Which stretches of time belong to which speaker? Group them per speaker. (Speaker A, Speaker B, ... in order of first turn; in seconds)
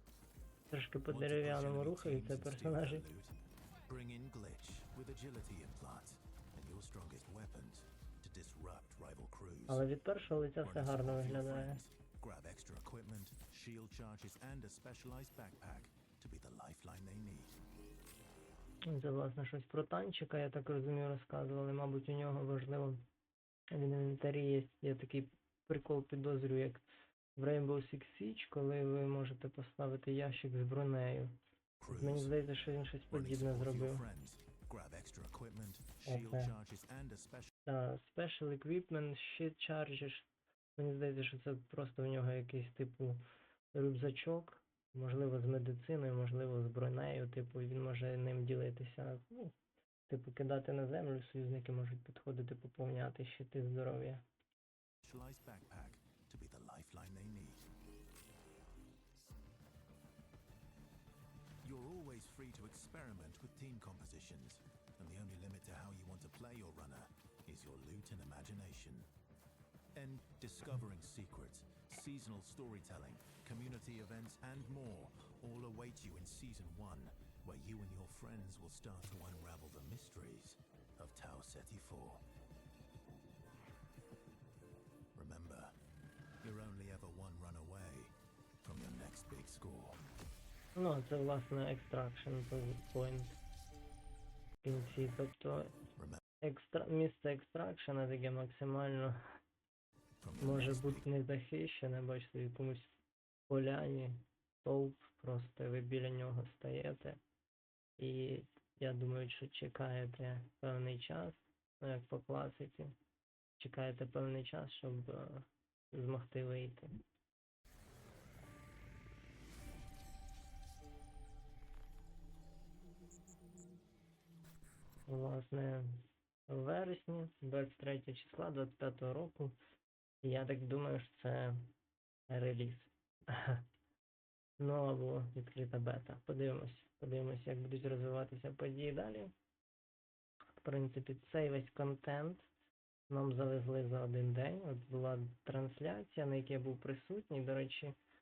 Speaker A: 0.7-3.0, 9.7-11.8, 18.9-23.0, 23.7-26.8, 27.4-31.4, 31.9-34.1, 36.1-36.5, 37.7-43.2, 43.7-49.5, 50.1-54.2, 90.8-93.4, 94.6-95.7, 96.4-99.2, 100.4-102.9, 103.5-107.2, 108.0-112.9, 113.6-116.9, 125.1-129.6, 130.2-131.7, 132.3-133.7, 134.6-139.3, 140.6-142.5, 143.1-147.9
Speaker B: 1.1-3.4, 3.9-9.9, 10.6-17.6, 31.8-32.4, 33.1-37.5, 55.0-57.7, 61.6-69.1, 70.0-82.2, 85.2-85.7, 86.4-90.0, 100.2-101.1